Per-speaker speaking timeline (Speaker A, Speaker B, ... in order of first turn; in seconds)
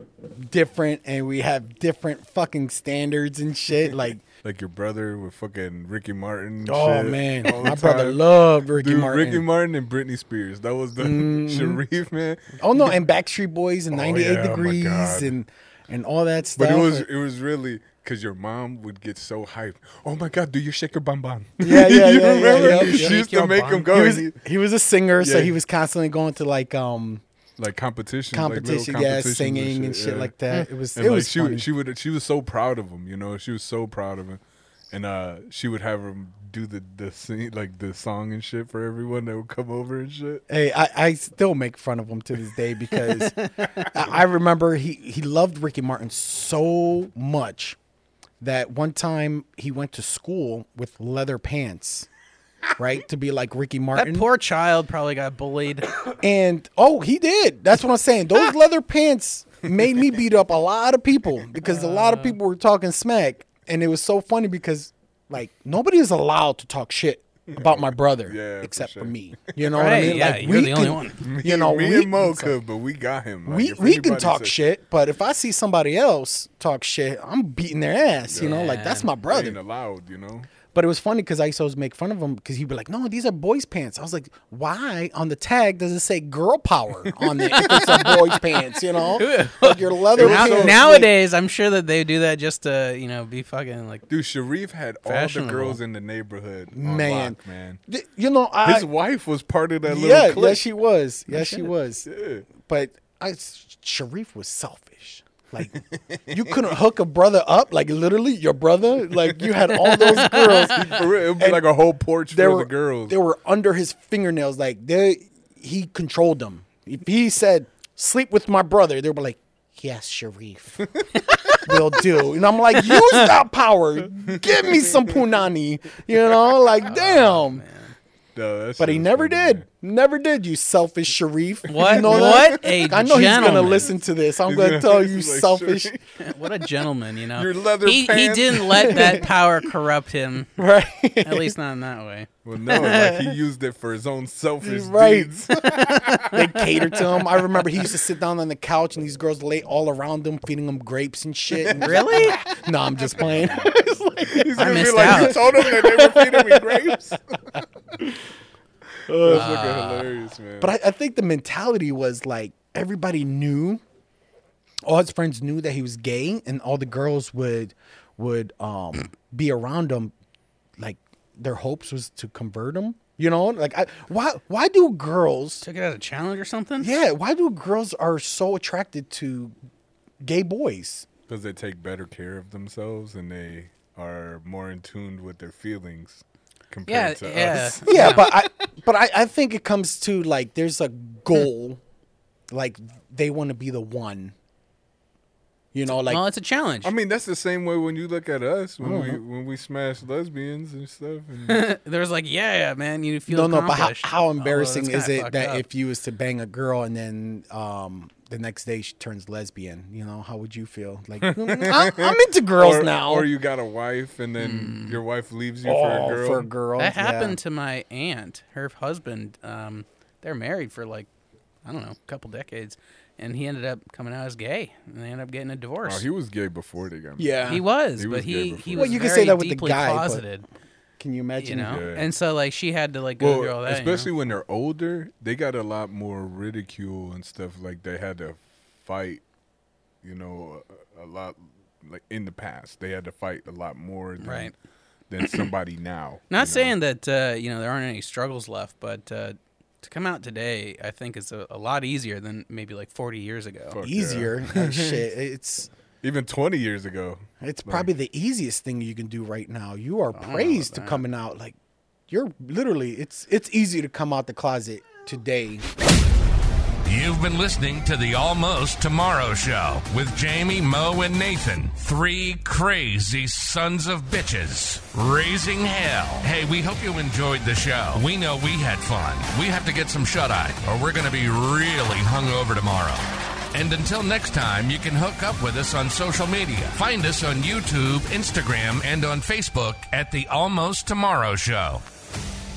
Speaker A: 0.3-4.2, 6.6-9.4, 11.0-11.8, 12.6-17.1, 21.6-23.2, 23.9-27.2, 28.3-31.7, 40.5-47.8, 48.4-52.1, 52.8-54.3, 56.2-72.5, 73.5-79.6, 80.7-91.1, 96.7-98.9, 99.8-111.7, 112.3-120.9, 121.6-127.6, 128.8-135.9, 138.8-139.3, 140.6-141.6, 144.6-157.2, 159.1-159.5, 160.6-163.8, 164.8-170.1, 170.8-175.6, 176.8-179.6, 180.2-181.1, 187.8-191.8, 192.5-194.3, 195.7-196.2, 198.8-199.2, 203.3-213.3, 215.6-217.4, 227.2-227.6, 228.7-230.2, 231.0-231.8, 253.8-255.7, 257.4-261.6, 262.1-265.7
Speaker B: 4.4-12.6, 13.9-15.3, 16.6-24.4, 25.2-25.6, 27.6-34.4, 34.9-40.4, 67.5-70.3, 71.2-74.6, 78.3-78.5, 79.3-80.5, 90.2-90.8, 94.1-97.8, 98.6-100.6, 102.0-102.5, 105.7-106.7, 110.6-113.2, 124.2-125.2, 128.3-129.7, 131.7-133.9, 134.4-136.7, 137.3-139.3, 142.4-146.3, 154.3-157.6, 159.1-160.7, 181.3-188.0, 196.8-201.7, 211.2-216.5, 225.8-229.0, 231.7-232.1, 233.2-239.2, 240.0-244.5, 245.1-246.7, 253.7-255.0, 256.0-257.9
Speaker C: 22.4-23.9, 43.1-43.5, 53.9-55.9, 61.6-62.4, 69.7-71.2, 78.4-79.1, 87.5-94.1, 95.0-95.8, 101.3-101.7, 109.8-111.0, 121.2-121.8, 122.8-123.3, 126.8-128.0, 131.7-133.9, 136.2-140.6, 141.2-143.3, 145.8-146.9, 151.6-152.4, 153.3-155.5, 159.2-160.1, 175.6-176.9, 186.9-188.7, 195.9-196.9, 201.5-205.6, 214.4-215.0, 216.8-221.1, 221.6-226.0, 227.5-230.5, 231.4-234.1, 244.2-244.5, 245.2-245.5, 246.3-253.8, 260.1-261.0
Speaker D: 266.8-291.8